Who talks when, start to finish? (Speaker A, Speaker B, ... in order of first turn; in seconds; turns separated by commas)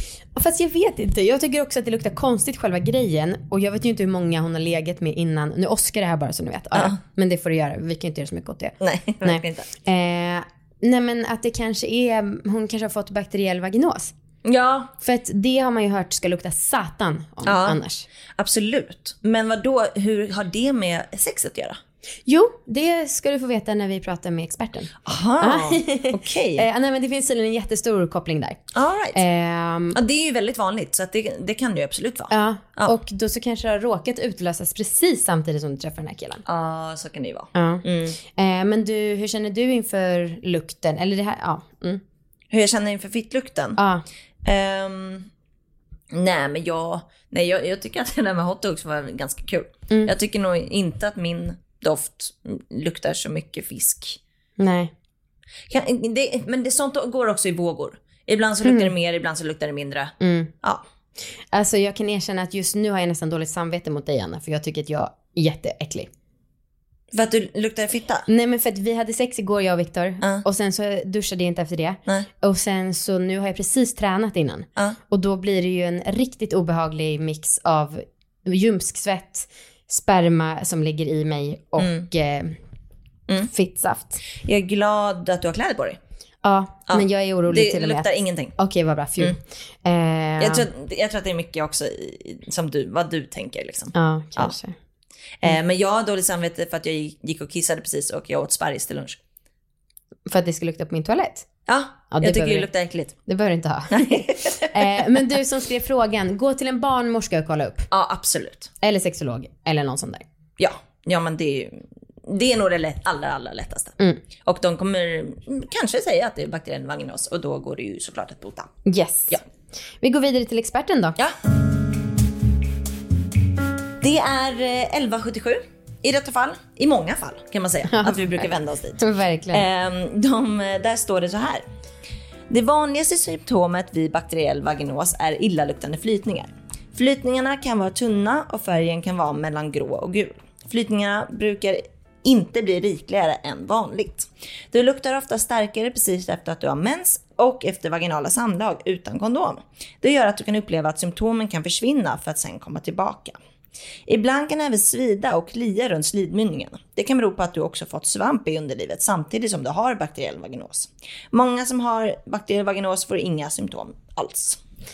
Speaker A: 0.3-14.1, Speaker B: 8.8-9.7, Speaker B: 14.4-14.9, Speaker A: 15.0-18.1, Speaker B: 17.4-17.8, Speaker B: 18.4-21.8, Speaker A: 22.2-28.6, Speaker B: 25.0-26.6, Speaker B: 28.7-29.2, Speaker A: 29.1-30.0, Speaker B: 29.9-33.0, Speaker A: 32.3-36.4, Speaker B: 36.4-38.2, Speaker A: 37.5-42.0, Speaker B: 42.5-43.8, Speaker A: 43.8-44.0, Speaker B: 44.4-45.3, Speaker B: 46.1-54.2, Speaker A: 54.6-54.9, Speaker B: 55.7-60.8, Speaker A: 58.6-58.9, Speaker A: 60.2-60.5, Speaker A: 61.5-66.1, Speaker B: 67.1-68.2, Speaker A: 68.3-82.6, Speaker B: 81.8-82.1, Speaker A: 83.5-84.2, Speaker B: 84.4-86.0, Speaker A: 86.4-90.7, Speaker B: 86.9-88.5, Speaker B: 90.4-94.5, Speaker A: 93.9-94.8, Speaker B: 95.4-99.2, Speaker A: 100.3-101.5, Speaker B: 101.7-103.1, Speaker A: 102.1-102.7, Speaker A: 103.2-107.9, Speaker B: 103.9-105.2, Speaker B: 107.9-108.7, Speaker A: 108.8-110.2, Speaker B: 110.6-118.7, Speaker A: 118.8-119.4, Speaker A: 120.0-121.2, Speaker B: 124.0-129.0, Speaker A: 127.9-129.7, Speaker B: 129.5-131.6, Speaker B: 132.5-153.4, Speaker B: 154.1-164.6